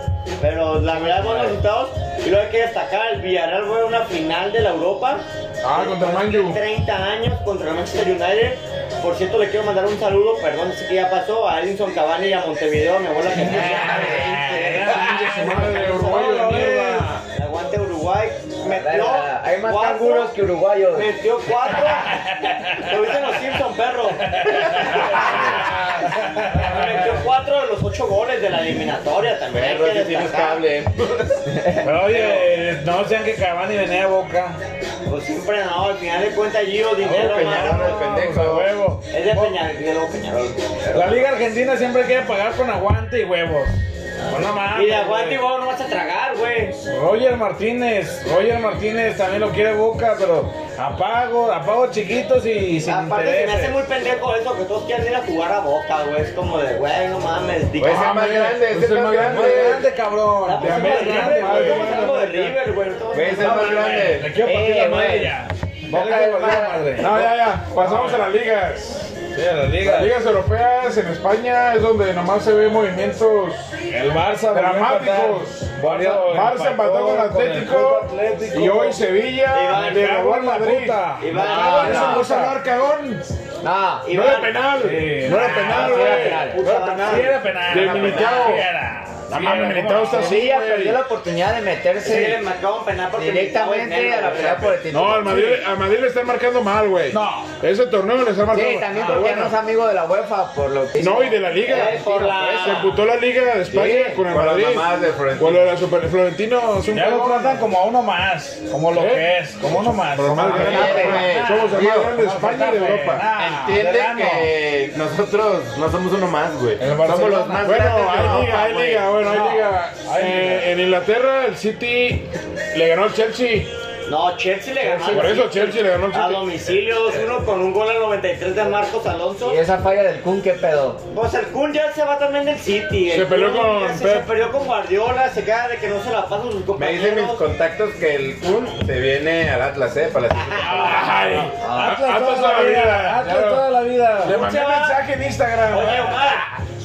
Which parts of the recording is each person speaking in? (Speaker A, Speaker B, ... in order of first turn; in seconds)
Speaker A: 0.4-20.3, 20.9-25.8, 26.4-30.6, 32.1-32.5, 35.1-38.0, 39.1-41.3, 44.7-46.8, 52.8-58.2, 60.5-64.1, 79.5-80.1, 81.2-82.2, 84.1-84.7, 85.3-87.5, 92.0-94.8, 101.7-103.0, 124.1-129.6, 131.1-137.4, 140.5-140.9, 144.2-145.0, 145.7-146.5
Speaker B: 5.6-6.6, 14.6-17.2, 25.2-26.1, 57.8-59.9, 60.6-62.5, 67.0-69.1, 69.8-73.7, 74.5-83.2, 84.1-88.7, 89.3-91.0, 94.9-99.6, 101.0-107.6, 108.9-113.3, 117.4-123.7, 124.9-126.6, 133.1-134.3, 140.7-146.4
Speaker C: 13.4-17.2, 22.0-22.9, 24.2-27.1, 31.8-34.6, 37.0-39.6, 40.9-45.4, 46.9-53.8, 59.2-62.3, 63.4-67.2, 67.7-68.3, 69.3-70.2, 73.9-79.0, 79.7-82.6, 84.8-85.7, 87.0-90.4, 97.1-97.5, 99.0-99.2, 106.9-114.5, 116.8-117.7, 119.2-120.7, 140.6-144.4
Speaker D: 13.4-14.5, 18.7-21.1, 64.3-65.4, 65.9-67.3, 81.4-82.2, 83.6-84.1, 85.4-86.6, 90.1-92.4, 93.2-95.6, 98.5-103.0, 103.7-104.2, 110.5-111.3, 129.4-131.0, 141.6-141.9
Speaker E: 29.5-31.8, 37.0-38.7, 57.8-59.9, 63.1-64.3, 104.2-105.7, 110.3-112.1, 113.3-119.1, 136.8-141.1